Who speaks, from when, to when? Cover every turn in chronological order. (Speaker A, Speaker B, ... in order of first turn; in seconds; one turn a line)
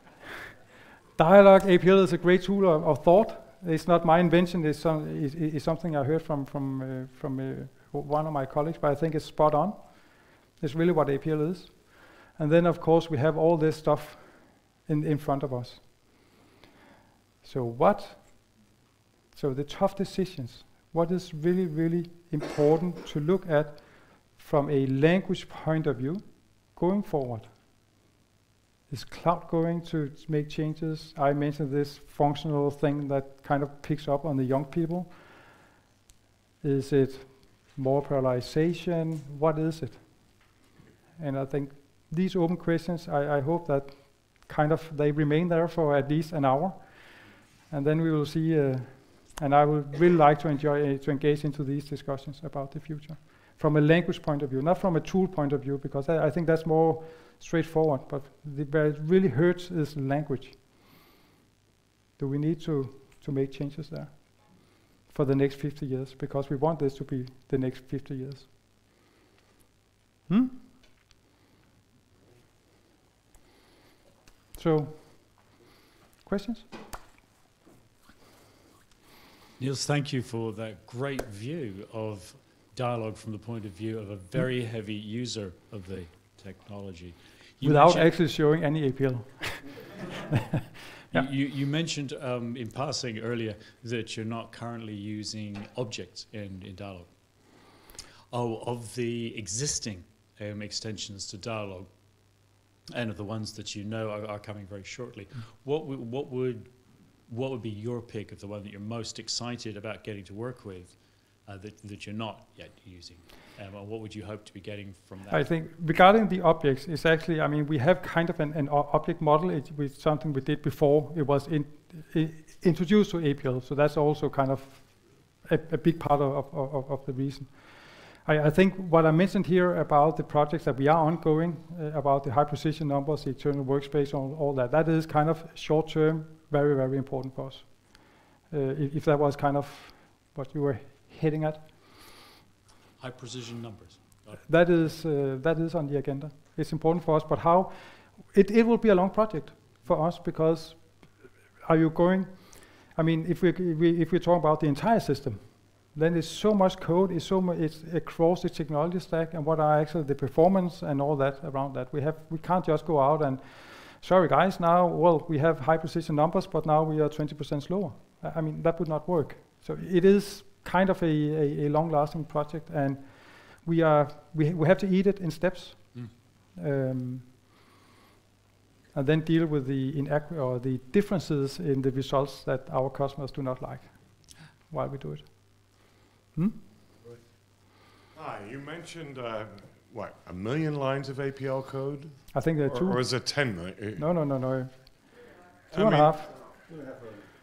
Speaker A: 1.2-16.3
Speaker A: 17.4-18.6
Speaker A: 19.3-27.5
Speaker A: 28.9-35.1
Speaker A: 36.6-40.5
Speaker A: 41.2-61.0
Speaker A: 62.2-68.5
Speaker A: 70.3-70.6
Speaker A: 74.5-75.5
Speaker A: 76.2-76.7
Speaker B: 79.6-88.1
Speaker A: 87.6-89.9
Speaker B: 91.1-115.5
Speaker A: 115.3-141.6
Speaker B: 143.0-144.4
Speaker A: 144.5-177.3
Speaker A: 178.9-186.6
Speaker C: 188.1-194.1
Speaker A: 192.3-193.1
Speaker A: 194.0-195.1
Speaker C: 195.7-196.2
Speaker A: 195.7-196.3